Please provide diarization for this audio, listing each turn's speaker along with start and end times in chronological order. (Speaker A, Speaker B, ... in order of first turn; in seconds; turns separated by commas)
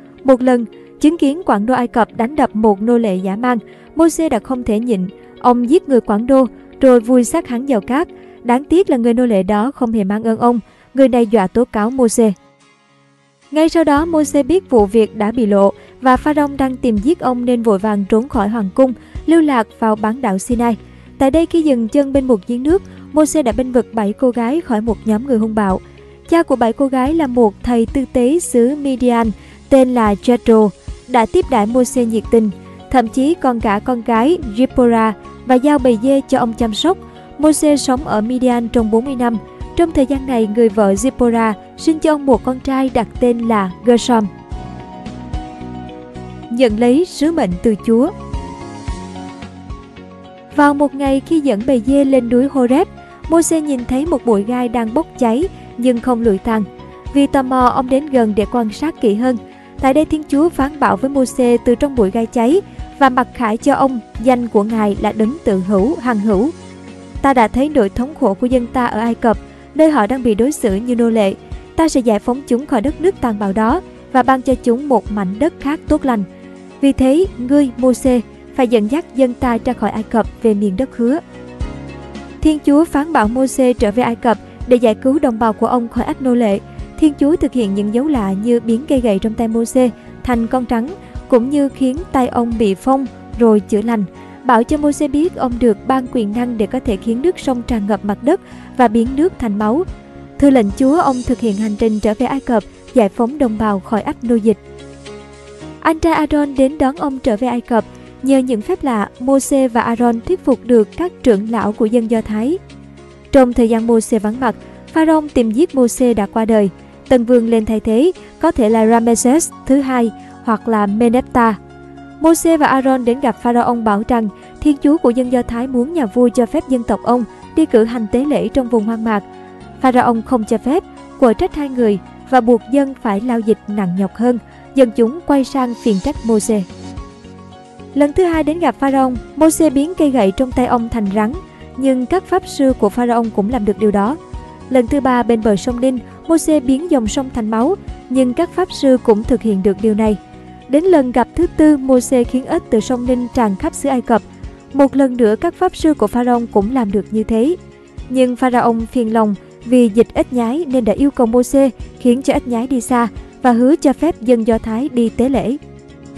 Speaker A: 0.2-12.3, Speaker A: 13.5-44.3, Speaker A: 46.5-48.1, Speaker A: 50.5-66.5, Speaker A: 67.2-76.2, Speaker A: 76.8-81.2, Speaker A: 82.4-99.8, Speaker A: 100.4-104.6, Speaker A: 105.8-112.6, Speaker A: 113.3-121.6, Speaker A: 122.2-129.2, Speaker A: 129.8-136.7, Speaker A: 137.9-144.2, Speaker A: 144.7-157.6, Speaker A: 158.1-165.6